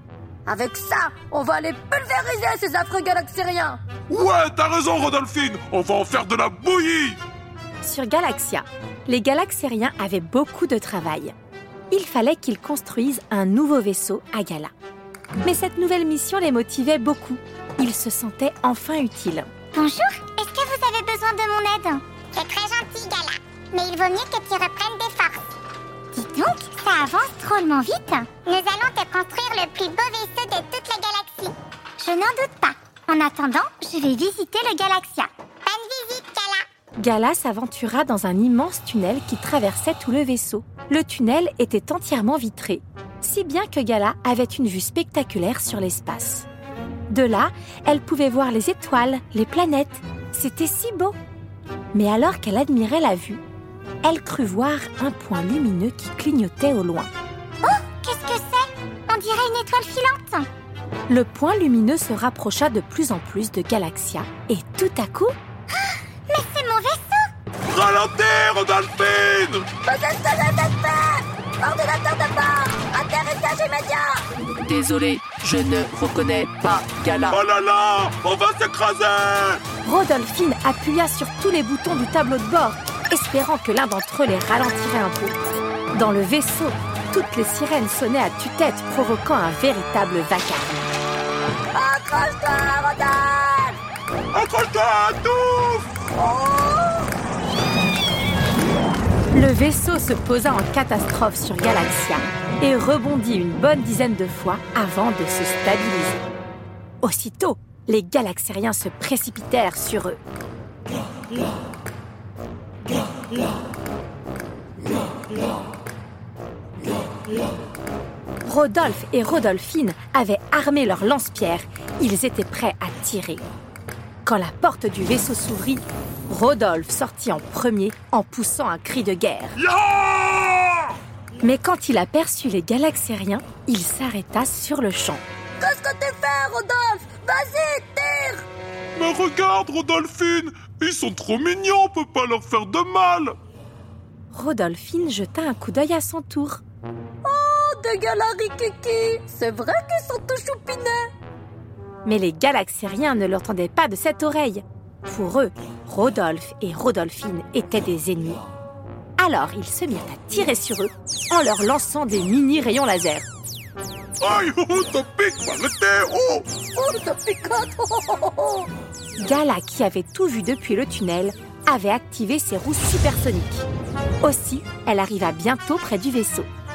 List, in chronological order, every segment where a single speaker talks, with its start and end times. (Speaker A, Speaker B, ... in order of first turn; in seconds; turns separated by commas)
Speaker A: 0.5-3.8, Speaker B: 4.1-7.2, Speaker C: 7.8-11.3, Speaker C: 11.9-14.7, Speaker C: 15.4-19.5, Speaker D: 19.7-25.4, Speaker D: 26.1-36.6, Speaker C: 37.0-46.5, Speaker C: 47.1-51.1, Speaker C: 51.9-53.4, Speaker C: 54.0-57.1, Speaker D: 57.6-60.5, Speaker C: 61.1-65.3, Speaker D: 65.7-67.3, Speaker B: 67.7-69.7, Speaker A: 69.8-74.2, Speaker E: 74.6-77.3, Speaker B: 77.3-79.6, Speaker C: 79.8-85.4, Speaker C: 85.9-90.9, Speaker A: 91.7-93.8, Speaker B: 94.3-95.8, Speaker A: 96.1-97.1, Speaker C: 99.3-106.2, Speaker C: 107.0-110.2, Speaker C: 118.4-123.4, Speaker C: 124.2-129.6, Speaker B: 129.6-130.9, Speaker C: 131.4-135.2, Speaker A: 135.6-138.4, Speaker B: 138.9-143.3, Speaker C: 144.3-146.6, Speaker A: 147.2-151.1, Speaker C: 152.0-158.4, Speaker C: 159.2-163.2, Speaker B: 164.2-166.5, Speaker A: 166.6-168.7, Speaker C: 169.2-173.7, Speaker C: 174.2-176.5